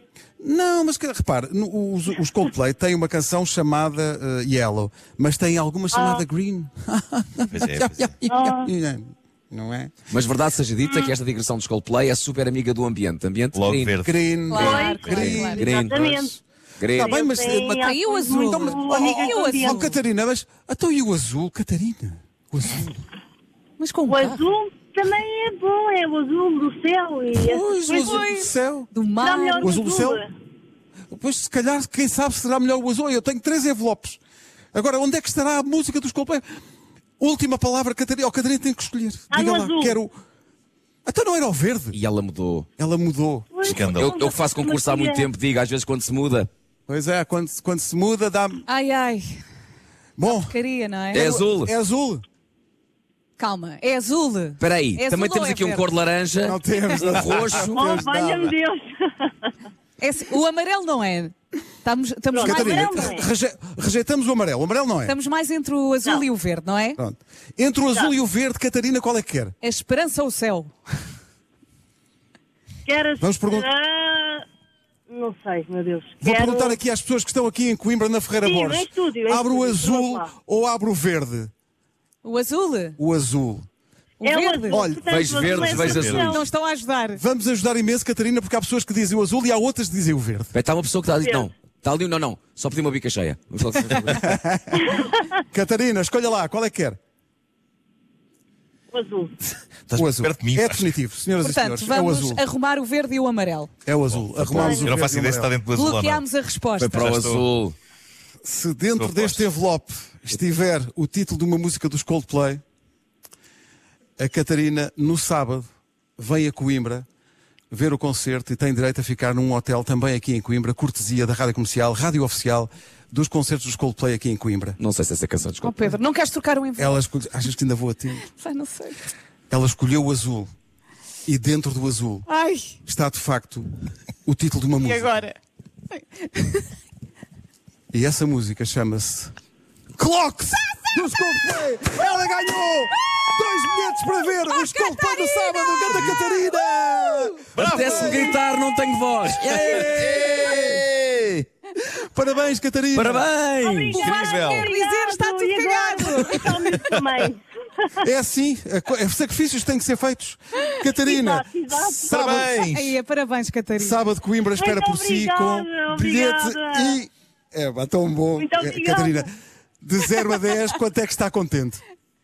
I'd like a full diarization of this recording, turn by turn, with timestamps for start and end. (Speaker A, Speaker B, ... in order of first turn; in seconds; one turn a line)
Speaker A: 0.4-9.9
Speaker B: 5.9-6.2
Speaker C: 7.5-8.1
Speaker B: 8.3-8.7
Speaker D: 10.1-13.9
Speaker B: 10.8-11.1
Speaker C: 13.5-14.3
Speaker A: 14.0-15.6
Speaker E: 14.5-15.7
Speaker B: 14.5-16.4
Speaker D: 15.0-17.1
Speaker B: 16.9-19.9
Speaker A: 17.0-23.0
Speaker E: 17.8-20.0
Speaker E: 23.8-24.4
Speaker B: 24.1-28.3
Speaker A: 27.3-28.9
Speaker E: 27.9-29.7
Speaker B: 29.2-30.3
Speaker A: 29.6-30.2
Speaker A: 31.1-34.2
Speaker A: 34.7-36.5
Speaker A: 37.2-40.2
Speaker B: 39.3-40.0
Speaker A: 41.0-42.0
Speaker D: 41.9-42.7
Speaker A: 42.8-43.5
Speaker B: 43.5-45.3
Speaker C: 43.6-44.1
Speaker D: 43.9-46.5
Speaker A: 46.9-48.6
Speaker E: 48.7-49.2
Speaker A: 50.2-50.5
Speaker E: 50.2-51.3
Speaker A: 51.1-52.2
Speaker D: 51.1-51.7
Speaker E: 53.4-55.9
Speaker D: 54.6-57.9
Speaker A: 56.4-58.5
Speaker B: 57.6-59.5
Speaker E: 60.0-63.1
Speaker B: 62.3-63.3
Speaker A: 62.4-65.2
Speaker E: 65.0-67.0
Speaker A: 67.0-69.5
Speaker E: 69.6-70.7
Speaker B: 72.9-74.5
Speaker A: 73.2-73.7
Speaker B: 75.1-76.8
Speaker A: 76.2-81.5
Speaker B: 78.4-80.3
Speaker E: 82.2-83.0
Speaker A: 83.0-83.7
Speaker E: 84.2-84.9
Speaker B: 84.2-86.4
Speaker A: 84.7-85.5
Speaker D: 85.0-86.4
Speaker C: 85.5-86.3
Speaker E: 86.2-87.2
Speaker A: 87.2-90.5
Speaker D: 90.5-94.4
Speaker B: 91.2-91.5
Speaker A: 94.0-97.0
Speaker B: 98.9-99.3
Speaker C: 99.9-101.0
Speaker A: 99.9-102.4
Speaker E: 101.4-103.7
Speaker A: 103.8-105.5
Speaker C: 104.1-106.2
Speaker B: 104.5-104.9
Speaker E: 105.7-107.0
Speaker D: 106.8-107.7
Speaker C: 106.9-107.5
Speaker A: 108.4-112.6
Speaker C: 109.0-109.5
Speaker A: 114.2-115.7
Speaker A: 116.2-117.0
Speaker A: 117.7-124.8
Speaker D: 124.8-125.9
Speaker E: 125.6-127.0
Speaker A: 126.8-128.3
Speaker E: 128.2-129.0
Speaker A: 129.5-130.5
Speaker A: 131.2-132.3
Speaker E: 132.3-132.8
Speaker A: 132.8-133.7
Speaker A: 134.2-135.2
Speaker E: 134.8-135.3
Speaker E: 135.9-136.7
Speaker A: 137.9-139.3
Speaker A: 140.0-148.4
Speaker E: 144.4-147.3
Speaker C: 147.5-148.3
Speaker D: 147.6-151.0
Speaker A: 149.3-150.8
Speaker C: 149.7-151.3
Speaker A: 151.9-153.3
Speaker D: 152.9-154.0
Speaker B: 153.6-157.9
Speaker E: 153.9-156.9
Speaker C: 154.0-154.7
Speaker A: 158.0-162.6
Speaker B: 161.0-162.4
Speaker C: 162.1-163.0
Speaker E: 162.7-164.1
Speaker A: 163.8-169.3
Speaker B: 164.6-167.0
Speaker B: 168.4-169.2
Speaker A: 169.8-171.8